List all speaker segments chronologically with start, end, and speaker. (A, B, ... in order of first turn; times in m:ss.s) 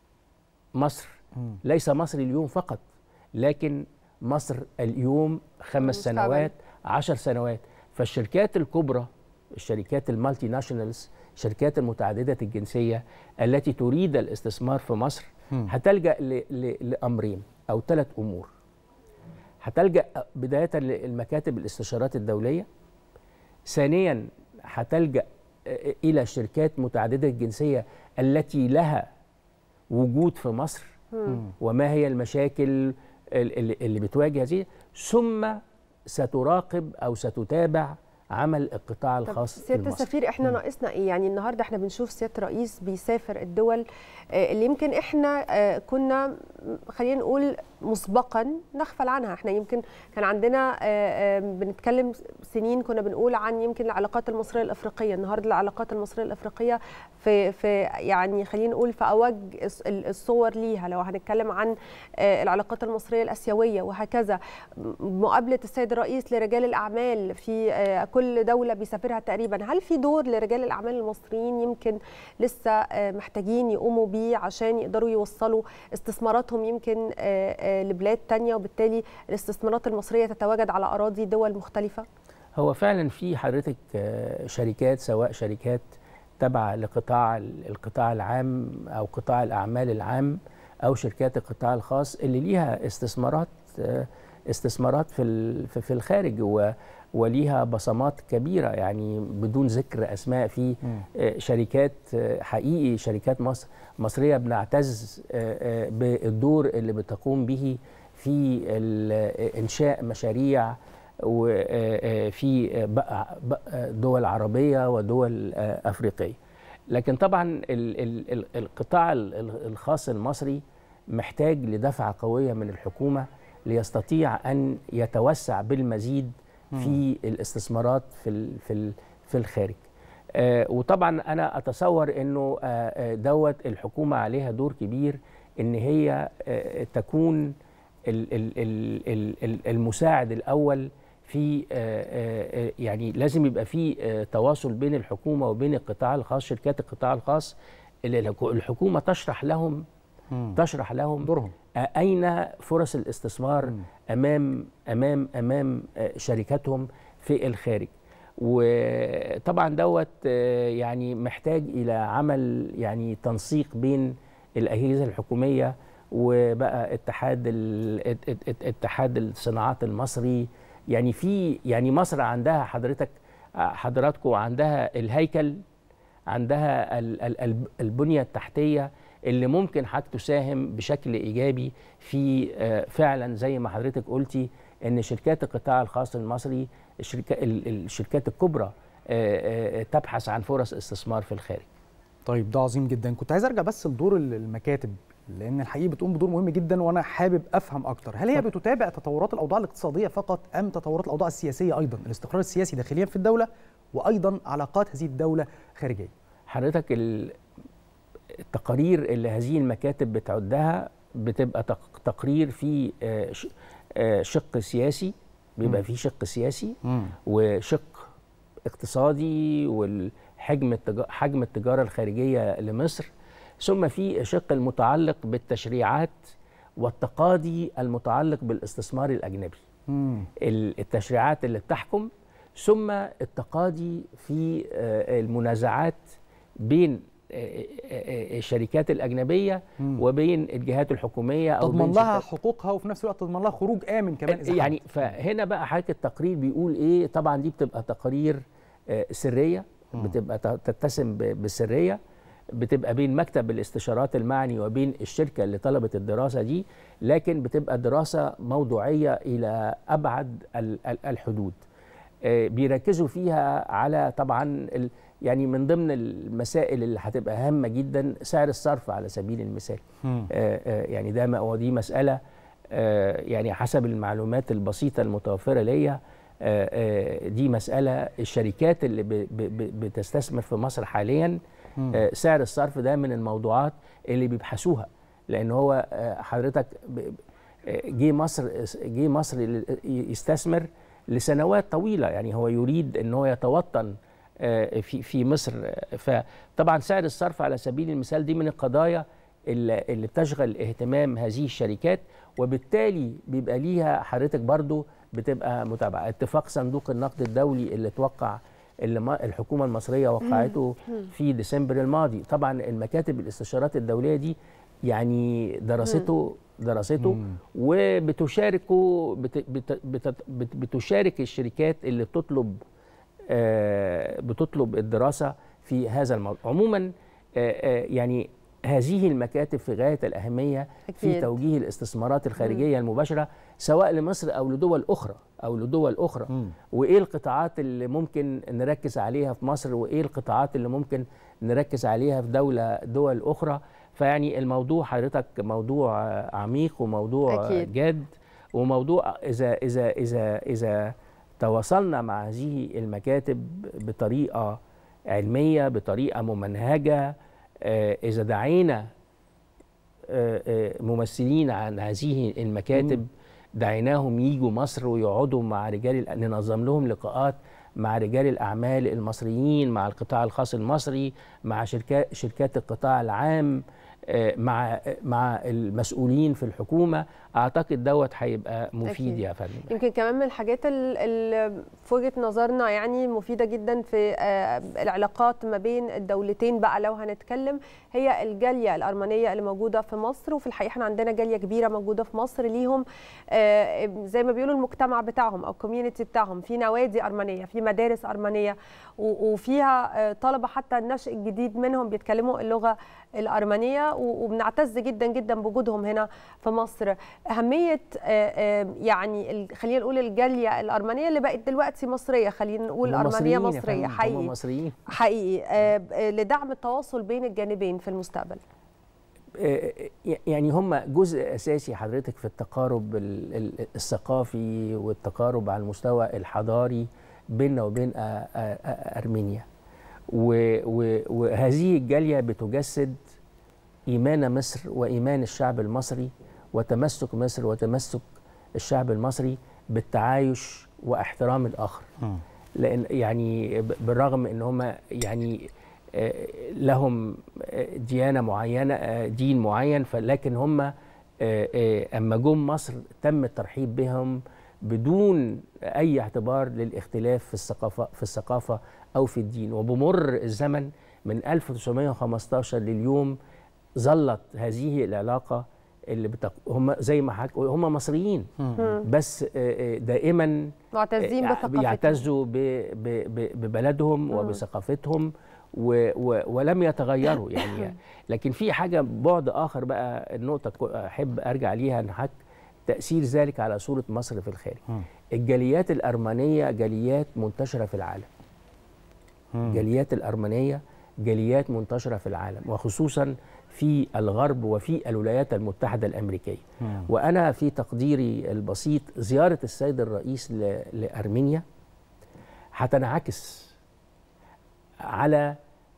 0:00.8-0:02.8 A
0:03.4-0:18.5 A
0:05.8-0:06.5 B
0:19.6-0:22.7 A
0:23.7-0:29.0 A
0:29.9-0:30.9 A
0:31.1-0:31.4 B
0:31.6-0:40.1 A
0:39.3-0:43.8 B
0:44.3-1:22.0 B
1:22.6-1:25.8 A
1:26.4-1:56.4 A
1:56.9-2:00.6 A
2:01.1-2:09.8 A
2:10.3-2:17.5 A
2:18.1-2:29.8 A
2:30.3-2:30.6 C
2:30.5-2:55.6 A
2:31.2-2:31.5 C
2:56.3-3:11.7 A
3:12.3-3:26.1 C
3:26.5-3:27.4 A
3:28.5-3:38.1 A
3:36.9-3:37.1 C
3:38.7-3:43.1 A
3:43.6-3:46.2 A
3:46.8-3:49.6 A
3:49.9-3:50.3 C
3:50.4-3:56.0 A
3:56.6-4:02.2 A
4:01.6-4:04.8 C
4:04.3-4:12.0 A
4:12.5-4:21.6 A
4:22.2-4:32.2 A
4:30.0-4:30.3 C
4:32.7-4:41.4 A
4:41.9-5:14.4 A
5:14.9-5:22.6 A
5:17.0-5:17.3 C
5:23.3-5:54.6 A
5:30.9-5:31.3 B
5:47.3-5:47.7 B
5:55.1-5:58.9 A
6:00.1-6:19.7 A
6:18.9-6:54.3 B
6:52.8-6:54.9 A
6:54.9-6:58.4 B
6:59.4-7:09.5 A
7:10.1-7:13.0 A
7:13.9-7:18.0 A
7:18.6-7:21.8 A
7:22.6-7:43.2 A
7:43.8-7:50.5 A
7:48.6-7:48.8 B
7:50.7-7:52.0 B
7:51.0-8:02.2 A
7:54.1-7:54.4 B
8:02.7-8:04.6 A
8:05.2-8:08.1 A
8:09.3-8:09.6 C
8:09.5-8:21.4 A
8:16.6-8:16.9 C
8:22.6-8:23.5 A
8:24.9-8:25.4 A